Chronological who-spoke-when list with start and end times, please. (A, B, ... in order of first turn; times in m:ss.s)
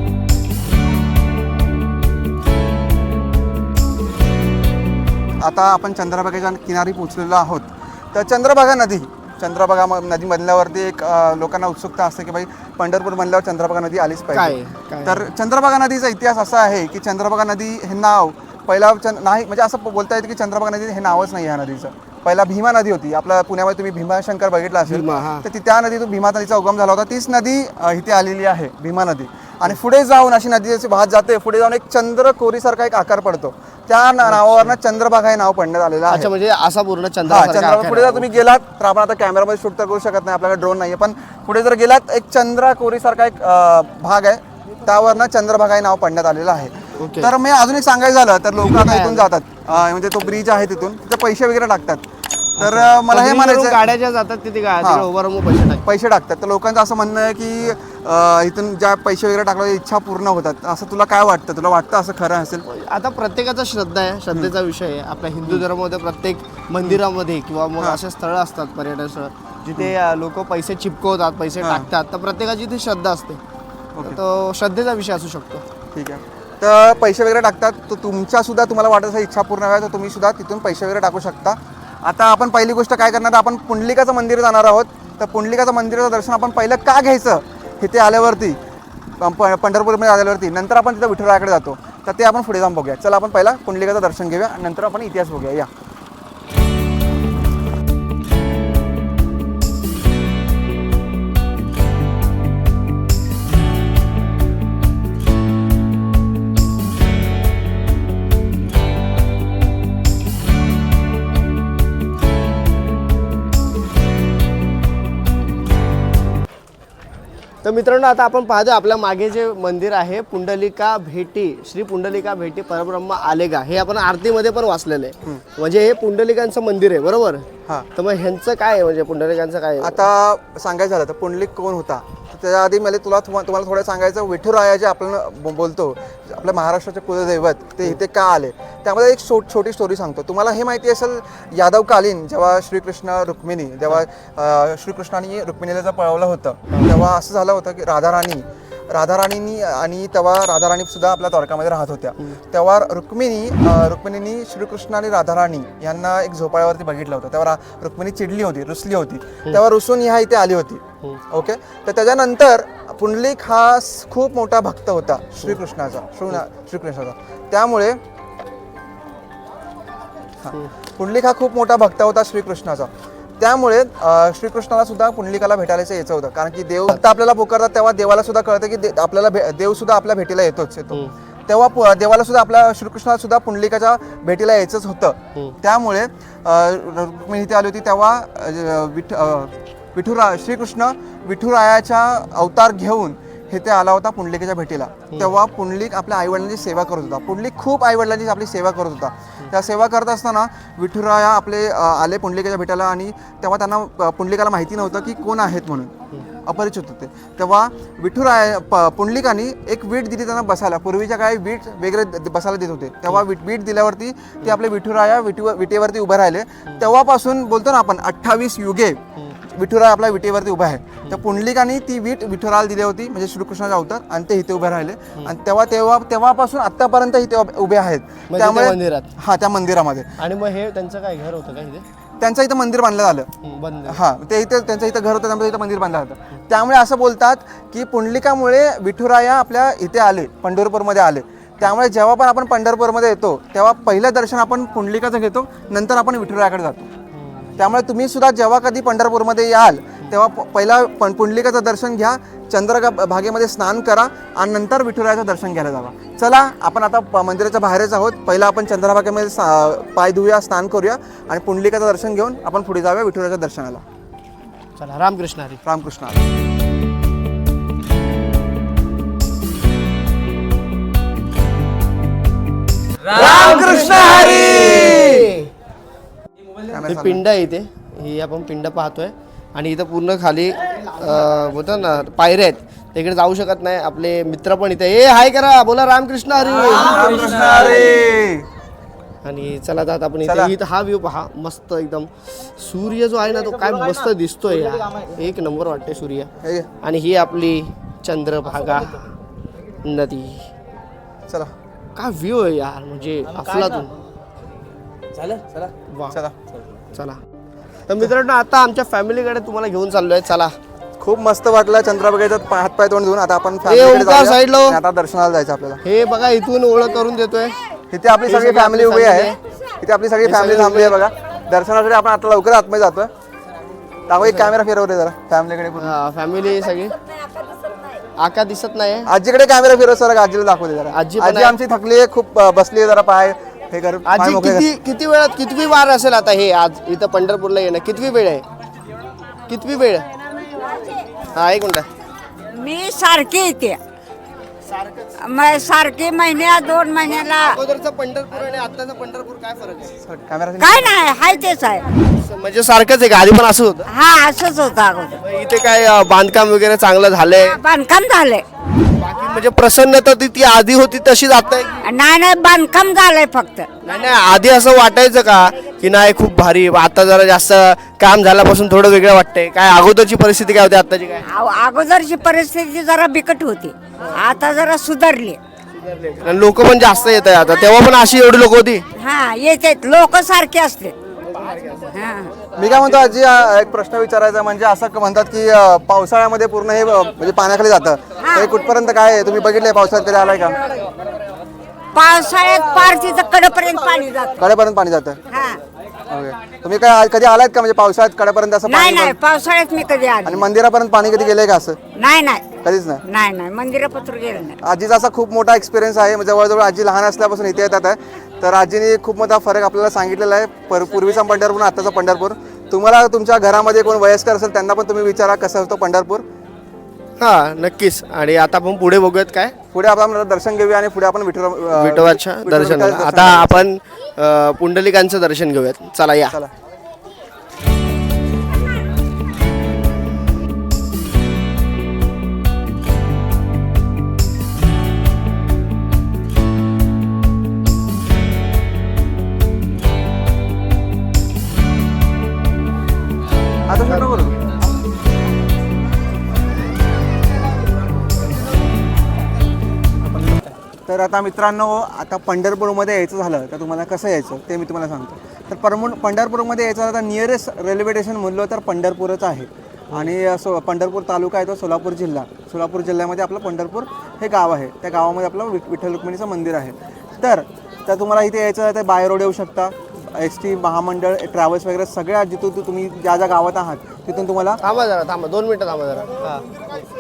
0:05.4-0:36.3 A
0:14.3-0:15.3 B
0:24.9-0:25.4 B
0:34.2-0:34.7 B
0:36.1-0:38.4 B
0:37.3-0:52.0 A
0:47.0-0:47.3 B
0:48.6-0:49.3 B
0:52.6-0:53.8 A
0:52.6-0:55.8 B
0:54.8-0:55.1 A
0:55.8-1:02.6 A
1:02.7-1:13.4 B
1:11.6-1:11.9 A
1:14.0-1:15.6 B
1:15.9-1:28.6 A
1:29.2-1:35.7 A
1:57.6-2:10.1 B
2:09.8-2:48.0 A
2:50.4-3:25.9 A
3:15.1-3:15.4 B
3:26.5-3:50.1 A
3:48.3-3:49.1 B
3:50.2-3:51.8 B
3:52.2-3:53.3 A
3:53.4-3:54.0 B
3:53.9-4:06.9 A
4:07.2-4:07.5 B
4:07.6-4:23.8 A
4:24.8-4:25.6 B
4:25.6-4:26.2 A
4:33.1-4:35.3 A
4:33.4-4:35.5 B
4:36.7-4:37.2 A
4:36.9-4:47.2 B
4:46.8-4:48.5 A
4:49.2-4:56.3 B
4:50.2-4:50.6 A
4:56.4-4:56.7 A
4:56.8-4:59.1 B
4:59.8-5:00.5 B
5:01.3-5:01.5 A
5:02.0-5:04.0 B
5:05.9-5:06.2 B
5:06.1-5:06.4 A
5:06.9-5:07.2 B
5:07.9-5:10.5 B
5:11.0-5:15.8 A
5:13.7-5:14.8 B
5:15.8-5:17.6 B
5:17.9-5:23.1 A
5:18.3-5:19.4 B
5:20.2-5:21.0 B
5:24.1-5:26.0 A
5:24.2-5:24.5 B
5:25.8-5:26.9 B
5:28.2-5:29.1 B
5:29.1-5:34.7 A
5:30.9-5:31.6 B
5:34.1-5:38.4 B
5:39.5-5:40.0 B
5:41.3-5:41.9 B
5:42.5-5:43.8 C
5:44.8-5:45.1 B
5:45.2-5:47.6 C
5:47.1-5:50.0 B
5:50.0-5:51.0 A
5:50.6-5:51.9 C
5:52.2-5:53.9 B
5:53.9-5:55.2 C
5:55.2-5:57.6 B
5:57.4-5:58.4 C
5:59.0-6:01.8 B
6:01.8-6:03.7 C
6:03.8-6:11.2 B
6:11.3-6:15.4 C
6:15.8-6:18.8 B
6:19.0-6:21.0 C
6:21.3-6:21.9 B
6:21.9-6:22.4 C
6:22.6-6:30.6 A
6:28.2-6:28.5 C
6:32.0-6:34.4 C
6:34.4-6:35.2 A
6:35.3-6:35.6 C
6:36.1-6:39.2 A
6:38.7-6:40.5 C
6:40.2-6:41.8 A
6:42.0-6:42.5 C
6:42.6-6:43.0 A
6:43.0-6:44.6 C
6:44.6-6:56.2 A
6:57.2-6:59.6 B
6:59.7-7:03.7 A
7:01.7-7:06.4 B
7:23.7-7:24.4 A
7:30.1-7:30.4 B
7:30.9-7:54.6 A
7:54.6-7:56.5 B